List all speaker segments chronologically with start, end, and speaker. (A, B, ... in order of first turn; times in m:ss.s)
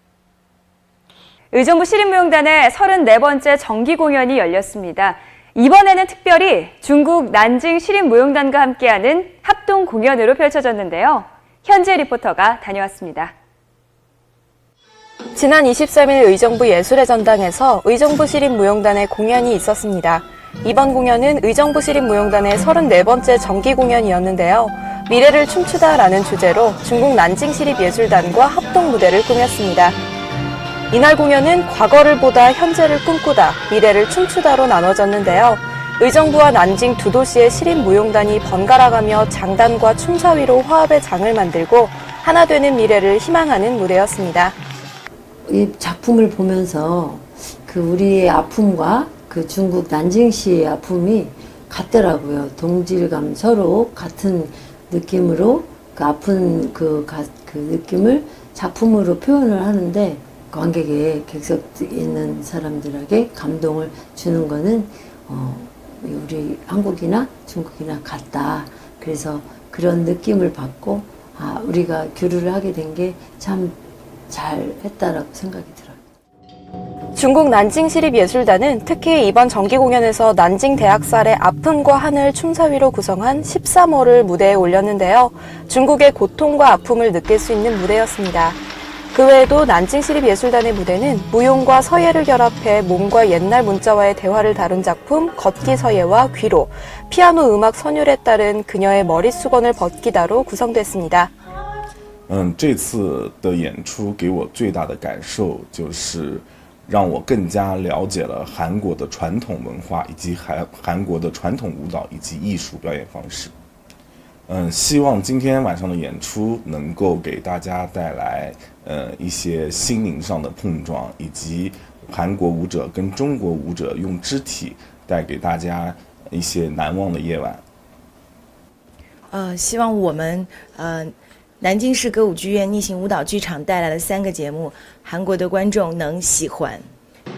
0:01.5-0:13.3 A
0:15.3-0:30.0 B
0:30.9-0:44.5 B
0:45.5-1:13.8 C
1:14.3-1:16.0 C
1:17.2-1:28.6 B
1:29.1-1:41.3 B
1:42.3-1:53.5 D
1:54.5-2:07.6 D
2:09.3-2:16.8 E